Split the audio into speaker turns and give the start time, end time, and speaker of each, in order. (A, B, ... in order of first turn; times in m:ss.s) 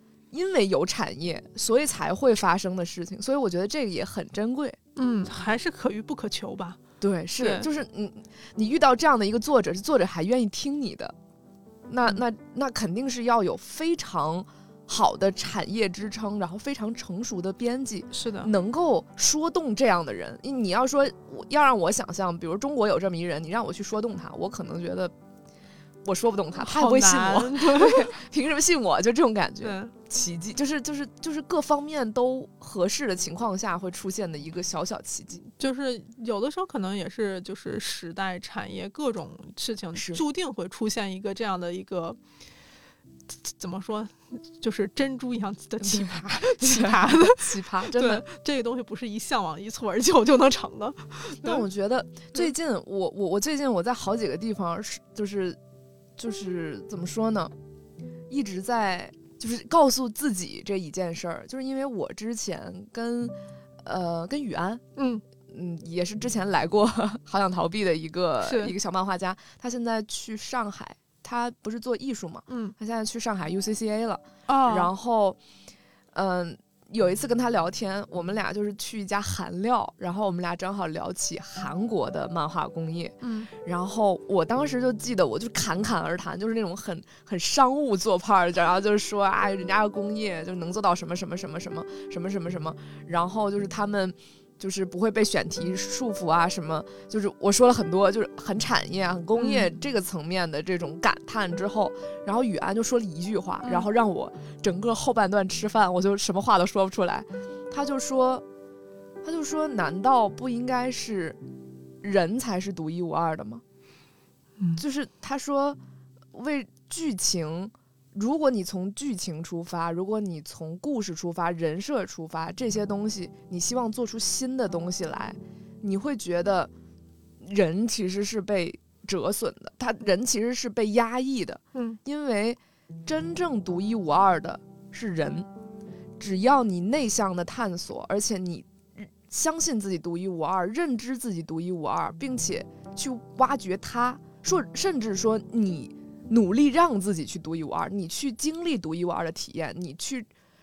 0:00.3-0:04.8 A
0:05.0-0:06.8 B
0:07.0-0:11.1 A
0:07.4-0:07.7 B
0:11.9-0:25.1 A
0:18.1-0:18.5 B
0:26.0-0:35.4 A
0:26.6-0:28.1 B
0:29.6-0:29.9 B
0:35.6-0:42.2 B
0:39.9-0:40.2 A
0:43.4-0:51.6 B
0:45.8-0:48.2 A
0:51.4-0:55.6 A
0:56.2-0:57.5 A
0:58.3-1:04.8 A
1:05.0-1:05.2 B
1:05.5-1:15.4 A
1:08.4-1:08.7 B
1:12.5-1:12.7 B
1:14.5-1:14.9 B
1:16.1-1:48.4 A
1:23.2-1:23.5 B
1:39.4-1:39.7 B
1:43.6-1:43.9 B
1:49.2-1:51.4 A
1:52.0-1:53.6 A
1:54.8-1:55.8 A
1:56.3-2:06.7 A
2:07.4-2:15.5 A
2:11.7-2:12.0 B
2:16.2-2:30.3 A